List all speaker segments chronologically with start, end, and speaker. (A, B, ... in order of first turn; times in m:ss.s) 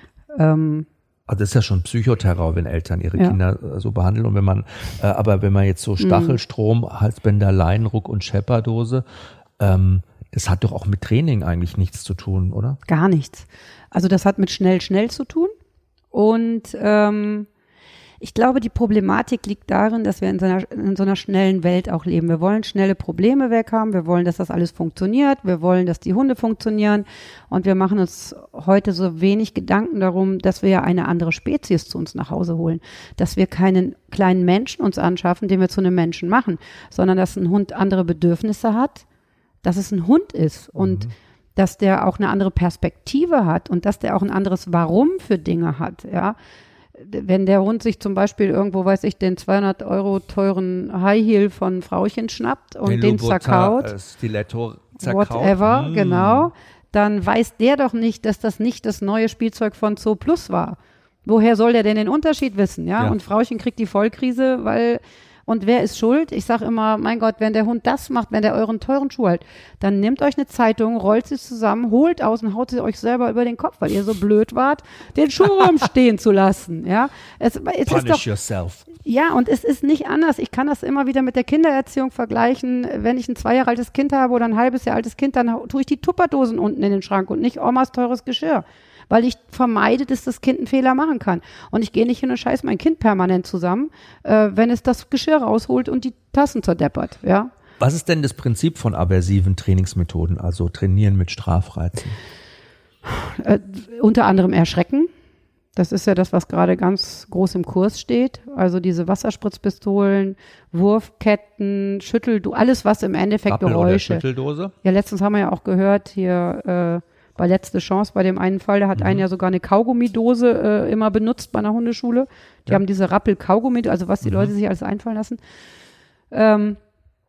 0:00.3-0:00.9 A
0:01.3-0:09.0 B
0:06.0-0:06.4 A
0:09.6-0:12.8 B
0:12.9-0:15.5 A
0:16.1-0:17.5 A
0:18.2-0:39.0 A
0:39.6-0:41.0 A
0:40.8-0:41.1 B
0:41.6-0:46.4 A
0:47.0-0:53.9 A
0:52.8-0:56.5 B
0:55.0-1:18.2 A
1:17.8-1:18.9 B
1:19.0-1:37.5 A
1:37.8-1:42.1 B
1:43.0-1:45.1 A
1:45.8-1:54.2 A
1:53.5-1:54.7 B
1:54.8-2:05.4 A
1:59.0-1:59.2 B
2:04.2-2:04.5 B
2:06.3-2:06.8 A